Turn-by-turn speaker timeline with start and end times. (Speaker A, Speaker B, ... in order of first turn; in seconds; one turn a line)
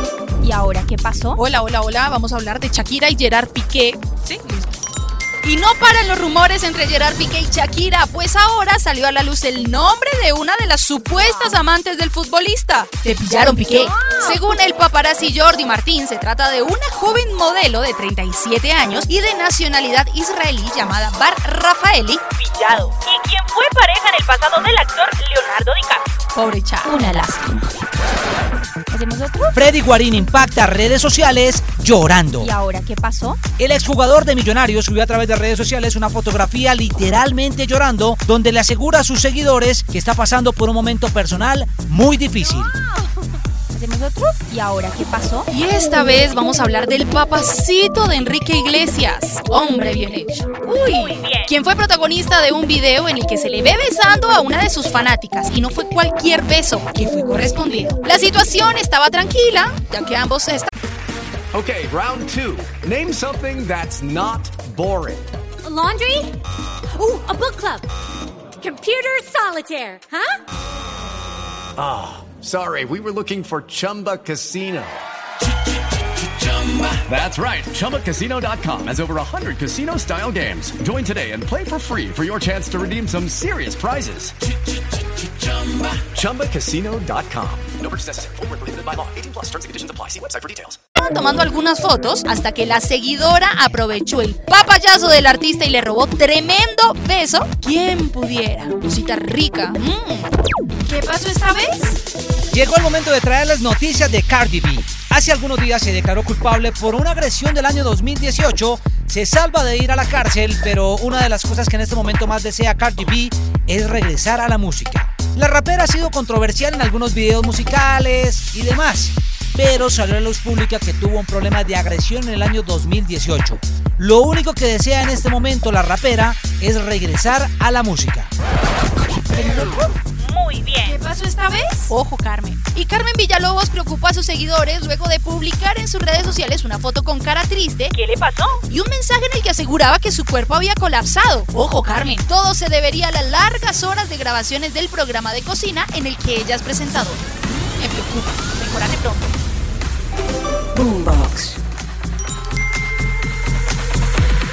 Speaker A: 0.4-1.4
Speaker B: 1.4-4.4
Speaker B: 5.4-23.1
Speaker A: 11.2-11.6
Speaker C: 13.7-14.4
Speaker D: 22.4-26.0
Speaker B: 23.6-25.3
Speaker B: 26.4-26.9
Speaker A: 26.9-27.6
Speaker A: 28.9-29.7
Speaker E: 29.5-32.5
Speaker A: 32.4-33.4
Speaker E: 33.6-42.8
Speaker C: 42.8-43.1
Speaker A: 43.7-45.5
Speaker B: 45.5-60.7
Speaker D: 50.8-51.5
Speaker F: 61.5-65.3
Speaker C: 65.6-66.4
Speaker C: 66.9-67.9
Speaker C: 68.6-70.4
Speaker F: 71.8-75.0
Speaker F: 76.4-84.4
Speaker F: 85.6-90.8
Speaker B: 91.0-100.3
Speaker B: 100.9-102.0
Speaker E: 102.5-128.3
Speaker D: 130.2-131.0
Speaker B: 130.8-149.3
Speaker D: 138.0-138.6
Speaker A: 150.8-151.4